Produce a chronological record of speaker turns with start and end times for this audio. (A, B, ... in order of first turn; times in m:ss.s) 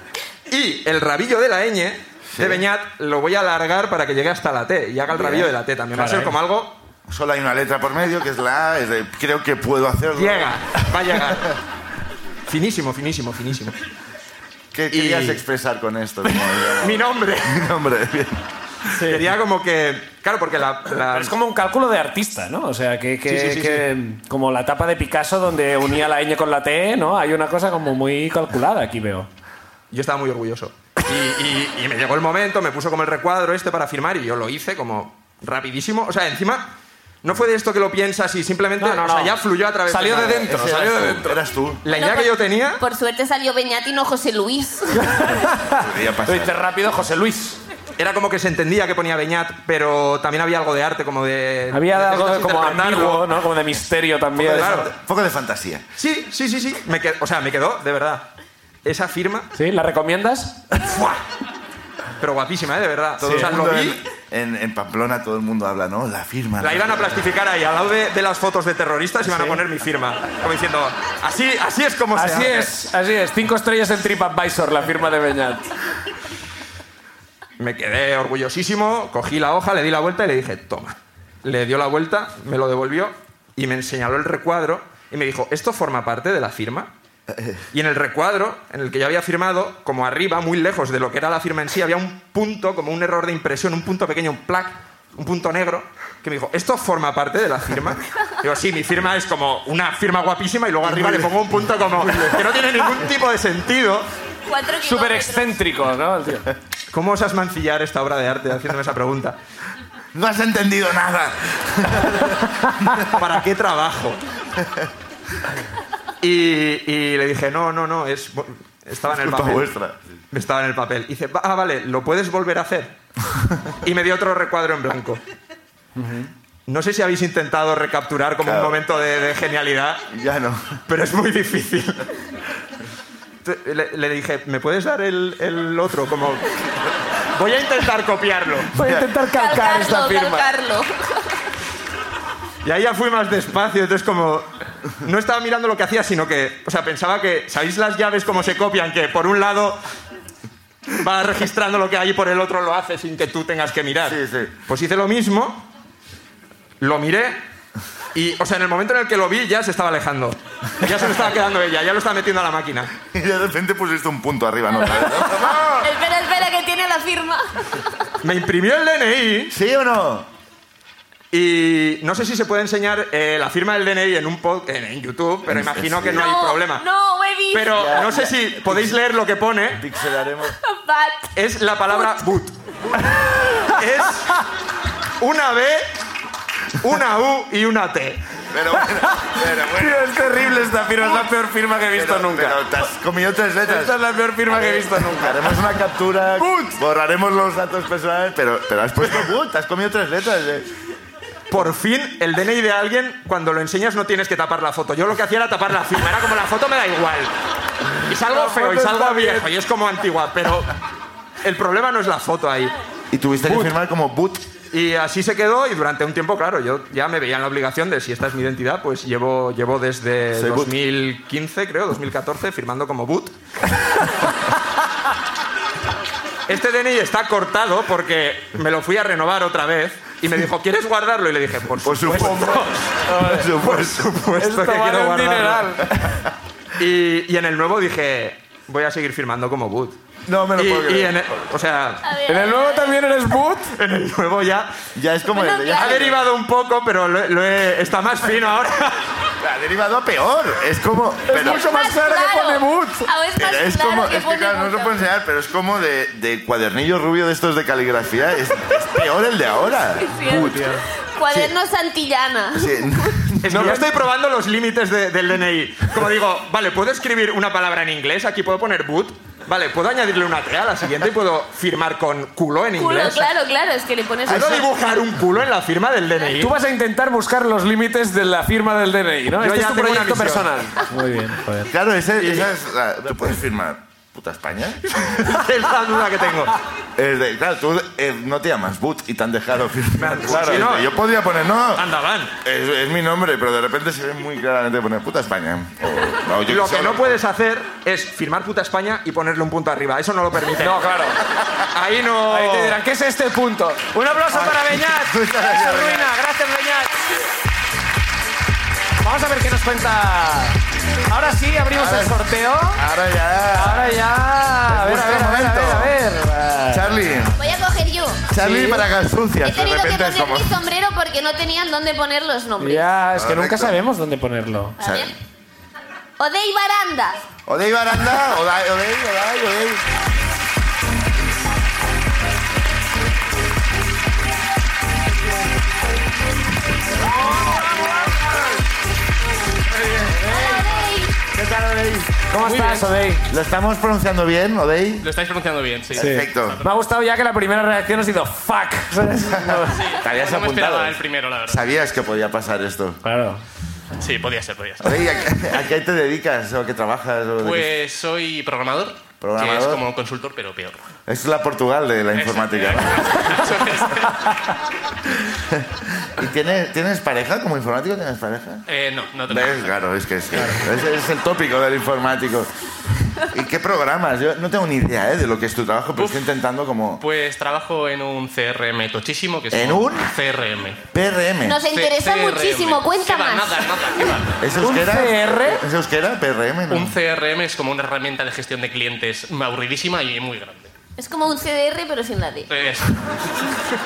0:00.5-0:06.8 A
0:02.3-0:02.7 B
0:05.1-0:05.6 B
0:05.9-0:06.3 C
0:07.1-0:10.6 B
0:10.2-0:11.6 A
0:12.5-0:13.8 A
0:14.7-0:18.4 B
0:14.9-0:15.4 A
0:16.3-0:17.7 A
0:18.9-0:21.3 A
0:19.0-0:19.2 C
0:21.0-0:29.3 C
0:23.3-0:23.9 A
0:29.9-0:36.7 A
0:37.2-0:40.6 A
0:38.8-0:41.4 C
0:40.1-0:41.8 B
0:41.8-0:42.8 A
0:41.9-0:45.4 D
0:45.0-0:47.6 C
0:45.7-0:46.6 B
0:48.0-0:53.4 A
0:51.7-0:54.9 C
0:54.4-0:55.8 B
0:54.5-0:54.9 A
0:56.0-0:58.3 A
0:58.8-0:59.5 A
0:59.6-1:01.0 C
1:00.8-1:01.2 A
1:02.2-1:04.0 A
1:03.2-1:07.2 B
1:03.2-1:03.5 C
1:06.6-1:12.7 A
1:09.3-1:09.6 C
1:12.1-1:15.7 C
1:17.6-1:26.9 A
1:27.3-1:27.6 B
1:27.7-1:44.1 A
1:40.8-1:41.4 B
1:42.0-1:42.4 B
1:44.5-1:45.6 D
1:44.8-1:46.5 C
1:46.9-1:49.4 A
1:50.1-1:53.1 B
1:53.1-1:54.2 A
1:54.6-1:54.9 B
1:56.2-1:59.7 A
1:59.1-2:00.0 B
2:00.3-2:02.9 A
2:03.8-2:05.2 A
2:06.0-2:06.3 C
2:06.7-2:10.0 A
2:08.4-2:08.8 B
2:10.1-2:10.8 B
2:10.9-2:12.1 A
2:13.4-2:16.5 A
2:17.3-2:18.7 A
2:18.7-2:20.5 C
2:18.8-2:19.1 B
2:19.3-2:21.3 D
2:22.6-2:29.8 A
2:30.9-2:35.6 A
2:34.0-2:34.6 B
2:36.8-2:37.4 A
2:38.1-2:42.9 A
2:43.1-2:45.9 B
2:45.6-2:47.9 D
2:48.2-2:49.5 A
2:49.5-2:50.3 B
2:51.3-2:56.8 A
2:55.5-2:56.3 B
2:56.1-2:58.0 D
2:57.5-2:59.8 A
2:57.7-2:59.0 B
2:59.8-3:00.6 B
3:00.6-3:01.3 D
3:01.4-3:02.6 A
3:03.4-3:03.7 C
3:03.7-3:04.4 A
3:05.2-3:05.9 A
3:06.8-3:08.2 A
3:08.5-3:10.7 B
3:08.8-3:12.7 C
3:11.9-3:14.0 B
3:13.7-3:15.6 C
3:14.5-3:20.7 B
3:16.4-3:16.8 C
3:21.5-3:27.3 A
3:28.1-3:30.8 A
3:28.1-3:29.5 C
3:31.4-3:32.8 A
3:33.1-3:34.4 B
3:33.4-3:33.7 A
3:34.7-3:43.3 A
3:40.3-3:40.8 B
3:46.5-3:52.7 A
3:51.8-3:54.2 B
3:52.1-3:53.5 C
3:53.4-3:55.8 A
3:54.4-3:56.2 C
3:56.0-3:56.3 B
3:56.8-4:00.0 A
4:00.3-4:01.3 B
4:00.6-4:02.1 A
4:02.0-4:03.1 D
4:02.3-4:03.8 C
4:03.8-4:04.8 A
4:05.0-4:06.2 B
4:05.3-4:06.2 D
4:05.8-4:09.1 A
4:09.4-4:11.7 B
4:11.3-4:13.1 C
4:11.5-4:15.0 D
4:13.4-4:20.8 B
4:20.0-4:23.2 D
4:20.3-4:20.8 C
4:22.5-4:23.8 B
4:23.4-4:33.3 A
4:23.5-4:23.9 C
4:32.8-4:34.6 D
4:34.3-4:36.5 A
4:36.4-4:41.7 C
4:39.4-4:40.5 A
4:41.7-4:45.4 B
4:42.2-4:42.5 A
4:45.0-4:46.6 A
4:47.0-4:51.9 B
4:50.0-4:50.9 A
4:50.2-4:50.7 C
4:51.8-4:52.3 A
4:52.4-4:57.2 B
4:56.5-5:00.9 A
5:00.6-5:01.2 C
5:01.7-5:02.8 A
5:02.3-5:07.0 C
5:04.3-5:06.1 B
5:09.0-5:12.8 C
5:11.8-5:12.2 B
5:12.8-5:14.0 B
5:13.5-5:17.3 C
5:14.7-5:16.0 B
5:16.7-5:17.4 B
5:17.4-5:18.3 D
5:18.3-5:20.6 B
5:18.4-5:18.8 C
5:19.4-5:22.8 D
5:22.6-5:24.8 C
5:23.1-5:23.8 B
5:24.8-5:25.1 D
5:24.8-5:25.1 B
5:26.2-5:27.2 D
5:27.5-5:29.8 B
5:37.1-5:38.2 C
5:40.0-5:40.7 C
5:40.3-5:41.2 D
5:41.3-5:42.2 B
5:42.3-5:43.2 C
5:42.4-5:42.9 E
5:43.3-5:45.1 B
5:45.0-5:46.8 E
5:45.9-5:46.6 B
5:46.0-5:49.8 C
5:49.3-5:53.0 B
5:49.7-5:51.7 E
5:53.0-5:53.4 C
5:54.0-5:55.1 E
5:54.8-5:57.7 B
5:57.4-6:00.8 E
5:59.2-5:59.8 B
6:01.1-6:03.4 B
6:02.2-6:04.3 E
6:05.2-6:08.6 B
6:08.7-6:09.7 E
6:09.3-6:12.5 B
6:13.2-6:17.0 B
6:16.0-6:16.3 E
6:17.0-6:20.8 E
6:19.5-6:20.1 B
6:20.9-6:21.6 B
6:21.4-6:24.1 D
6:21.7-6:24.4 E
6:24.4-6:27.0 B
6:24.6-6:25.6 C
6:26.7-6:30.7 E
6:31.0-6:32.5 D
6:32.5-6:33.5 E